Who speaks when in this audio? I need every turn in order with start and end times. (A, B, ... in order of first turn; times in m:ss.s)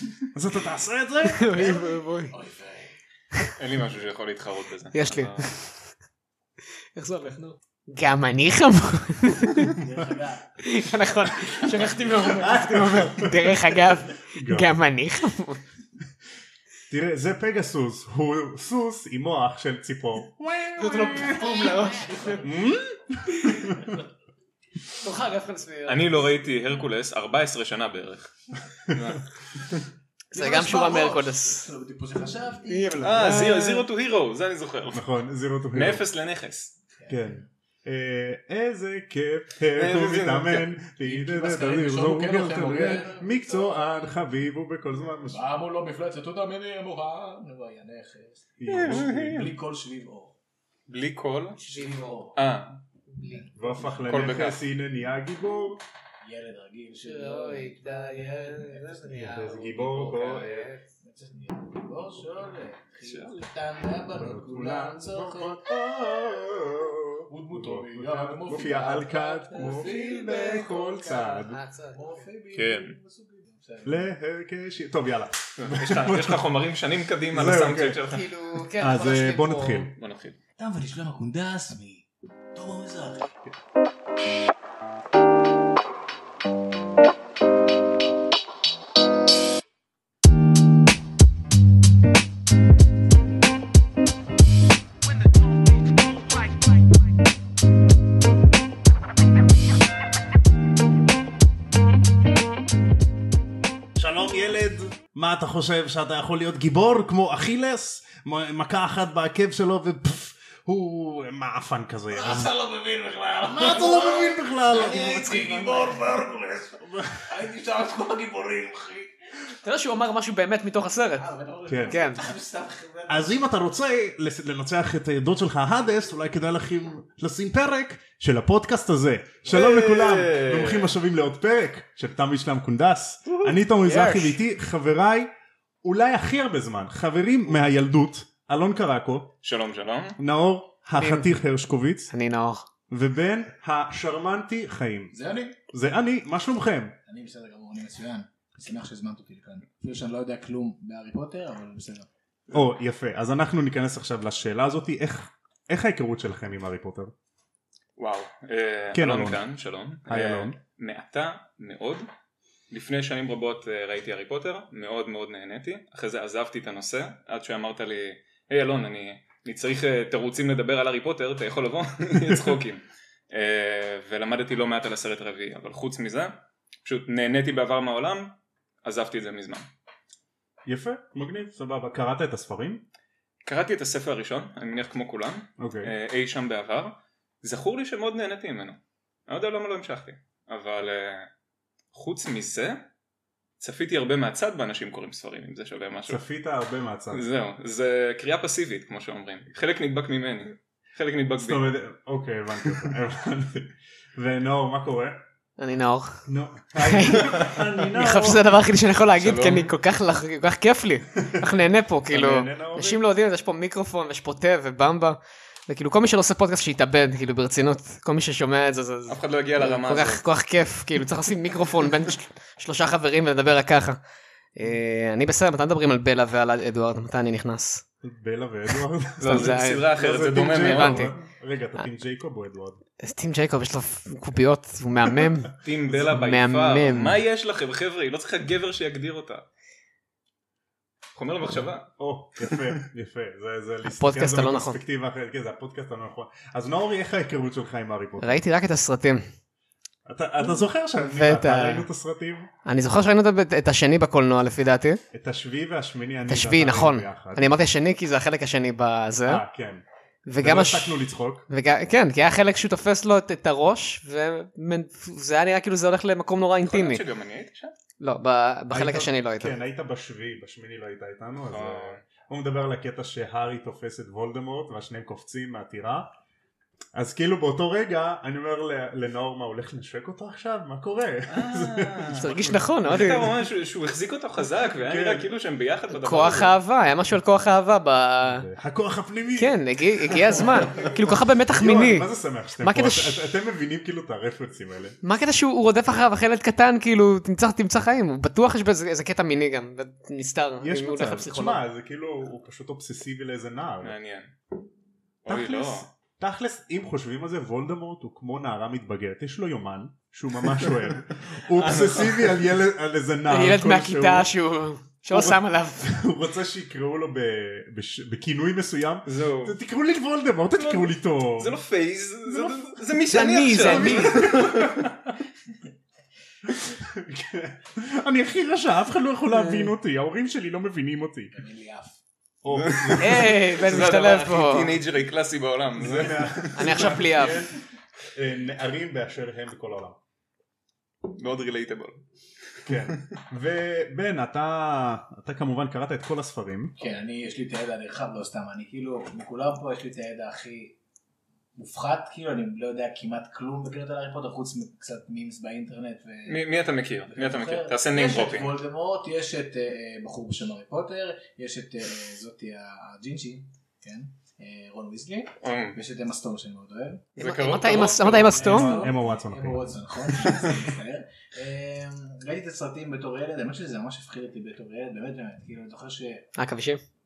0:00.3-0:01.6 A
0:01.2-0:02.3 B
0:01.5-0:02.9 C
0:03.6-0:05.5 D
0:04.9-0:05.8 B
0:06.9-0:09.8 B
0:09.6-0:10.6 C
0:10.6-0:15.6 B
0:11.5-0:12.3 C
0:12.1-0:14.8 A
0:16.9-0:21.5 A
0:20.8-0:22.4 B
0:21.1-0:22.5 C
0:22.4-0:24.0 A
0:23.4-0:23.7 B
0:25.0-0:26.3 B
0:25.8-0:29.9 D
0:30.3-0:31.7 B
0:30.3-0:33.0 C
0:32.7-0:33.4 B
0:32.9-0:33.8 A
0:33.0-0:35.1 D
0:34.9-0:36.0 A
0:35.7-0:36.7 D
0:37.0-0:37.4 C
0:37.1-0:45.4 A
0:39.7-0:40.7 D
0:41.0-0:44.1 C
0:45.3-0:50.4 C
0:48.6-0:49.5 A
0:48.7-0:48.9 B
0:48.8-0:49.4 D
0:50.9-0:51.6 D
0:51.6-0:52.4 C
0:51.6-0:52.2 B
0:52.3-0:52.8 D
0:53.1-0:53.7 B
0:53.3-0:53.8 C
0:53.5-0:55.8 A
0:54.0-0:54.6 D
0:56.2-0:59.5 C
0:57.0-1:00.9 B
0:59.1-1:00.7 A
1:01.0-1:05.7 C
1:03.0-1:03.4 D
1:04.1-1:11.6 A
1:07.3-1:14.1 C
1:09.5-1:12.1 B
1:12.5-1:12.9 D
1:13.8-1:16.4 A
1:15.6-1:18.3 D
1:17.3-1:18.0 A
1:18.1-1:19.9 B
1:18.8-1:19.9 A
1:19.9-1:20.4 D
1:20.6-1:23.3 C
1:44.0-1:52.5 A
1:52.1-1:59.3 C
1:53.4-1:56.2 A
1:56.8-1:57.2 A
1:59.6-2:01.2 B
2:01.2-2:03.4 C
2:01.7-2:02.0 A
2:01.9-2:02.2 B
2:03.1-2:15.3 A
2:09.5-2:10.9 D
2:13.8-2:14.4 B
2:15.8-2:19.3 A
2:19.4-2:20.2 D
2:20.2-2:22.1 A
2:20.9-2:21.3 B
2:22.1-2:22.7 B
2:22.9-2:27.0 A
2:25.1-2:25.6 C
2:27.0-2:32.1 C
2:32.5-2:37.1 A
2:38.0-2:42.0 D
2:38.9-2:39.4 A
2:40.0-2:40.6 A
2:42.7-2:59.6 D
3:00.6-3:02.8 A
3:03.4-3:11.3 D
3:05.6-3:05.9 A
3:11.9-3:12.8 D
3:13.6-3:16.2 D
3:16.0-3:17.2 A
3:17.1-3:21.7 D
3:21.4-3:25.2 A
3:25.6-3:44.0 B
3:26.2-3:28.5 A
3:29.1-3:29.7 D
3:32.1-3:33.0 A
3:39.1-3:40.2 D
3:44.5-3:47.8 B
3:48.0-3:52.8 A
3:49.2-3:51.1 D
3:49.2-3:51.1 B
3:53.0-3:57.2 B
3:55.6-3:59.4 D
4:01.1-4:01.9 D
4:02.0-4:08.4 A
4:03.9-4:04.8 B
4:08.2-4:09.2 B
4:10.0-4:12.5 A
4:10.9-4:11.8 B
4:12.6-4:15.0 B
4:15.1-4:17.6 A
4:16.3-4:19.4 B
4:19.2-4:19.8 A
4:20.2-4:27.0 B
4:20.4-4:21.5 A
4:26.6-4:27.7 D
4:28.0-4:29.5 B
4:28.7-4:36.1 A
4:31.5-4:32.0 D
4:36.9-4:42.7 A
4:41.3-4:46.6 D
4:42.2-4:43.4 B
4:44.9-4:45.3 A
4:46.0-4:48.5 B
4:48.2-4:49.6 A
4:49.4-4:52.1 B
4:50.2-4:55.0 A
4:50.3-4:50.9 D
4:52.6-4:53.3 B
4:55.0-5:01.6 B
5:00.6-5:03.9 A
5:03.8-5:04.3 D
5:05.2-5:05.9 D
5:05.2-5:14.3 A
5:11.5-5:12.4 D
5:13.3-5:15.9 B
5:15.1-5:21.6 A
5:19.0-5:19.6 D
5:20.5-5:24.9 D
5:23.1-5:24.7 B
5:23.6-5:25.1 A
5:26.5-5:31.4 A
5:29.3-5:29.7 B
5:31.3-5:32.0 C
5:32.4-5:33.4 A
5:32.5-5:37.3 D
5:33.0-5:34.8 B
5:35.8-5:40.0 A
5:36.6-5:37.5 B
5:41.0-5:42.0 D
5:42.5-5:43.2 D
5:42.6-5:46.8 A
5:46.8-5:50.8 C
5:51.6-5:56.4 C
5:56.2-5:58.6 D
5:57.1-6:07.0 C
6:05.4-6:05.8 D
6:07.2-6:08.8 B
6:07.2-6:08.7 D
6:08.3-6:09.6 A
6:08.3-6:16.3 C
6:10.2-6:10.6 D
6:16.4-6:16.8 B